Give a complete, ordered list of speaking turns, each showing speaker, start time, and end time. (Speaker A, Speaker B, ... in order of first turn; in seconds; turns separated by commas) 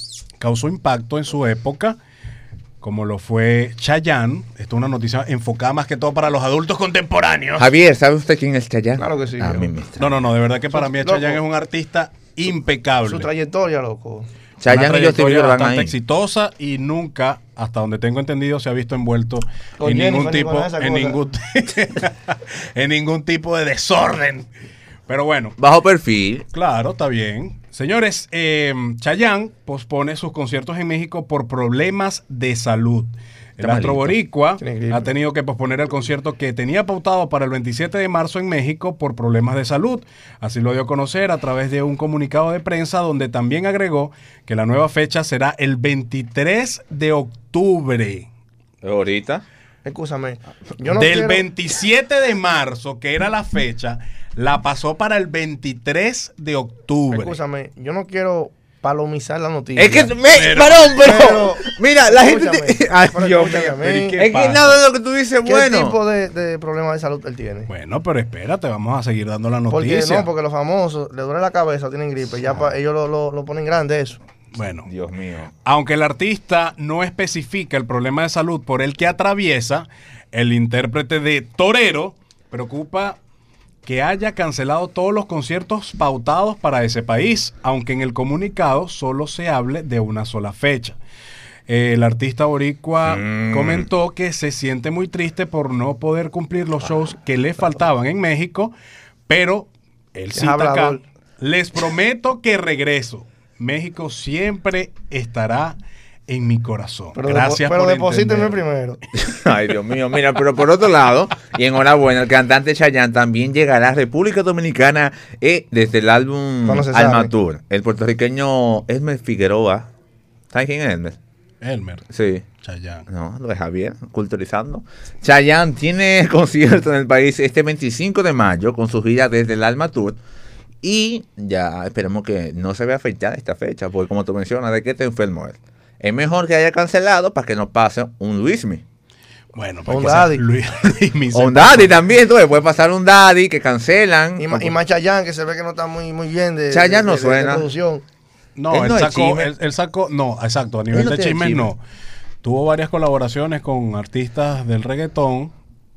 Speaker A: 0.4-2.0, Speaker A: 2.8-7.7, Speaker B: 7.6-10.2, Speaker C: 9.0-9.7, Speaker A: 10.0-13.3, Speaker C: 10.7-11.4, Speaker C: 13.1-14.3, Speaker B: 14.6-15.9, Speaker A: 14.7-24.5, Speaker C: 19.8-21.2, Speaker A: 25.1-25.6, Speaker B: 25.6-26.5, Speaker A: 26.5-48.3, Speaker B: 33.6-34.1, Speaker C: 34.6-35.1, Speaker B: 48.8-49.4, Speaker C: 49.9-51.5, Speaker A: 50.9-57.4, Speaker C: 57.1-60.2, Speaker B: 59.8-66.0, Speaker A: 60.3-60.9, Speaker C: 61.0-64.2, Speaker A: 63.8-64.8, Speaker C: 65.5-67.7, Speaker A: 67.7-70.3, Speaker C: 69.7-74.2, Speaker A: 74.5-74.9, Speaker B: 74.9-75.5, Speaker A: 75.6-83.2, Speaker A: 83.8-91.0, Speaker A: 91.7-98.7, Speaker B: 93.0-93.9, Speaker A: 99.3-105.8, Speaker C: 100.3-101.0, Speaker A: 106.3-108.6, Speaker C: 107.2-109.0, Speaker B: 109.1-119.9, Speaker C: 116.7-117.3, Speaker B: 120.5-121.2, Speaker A: 121.6-122.1, Speaker B: 122.1-122.5, Speaker A: 122.6-123.1, Speaker B: 123.1-130.2, Speaker B: 130.8-138.8, Speaker A: 139.5-142.0, Speaker C: 139.9-140.4, Speaker B: 141.3-144.7, Speaker C: 144.4-148.0, Speaker B: 146.7-147.7, Speaker A: 148.6-151.8, Speaker B: 148.7-149.5, Speaker B: 150.9-151.7, Speaker A: 152.4-155.5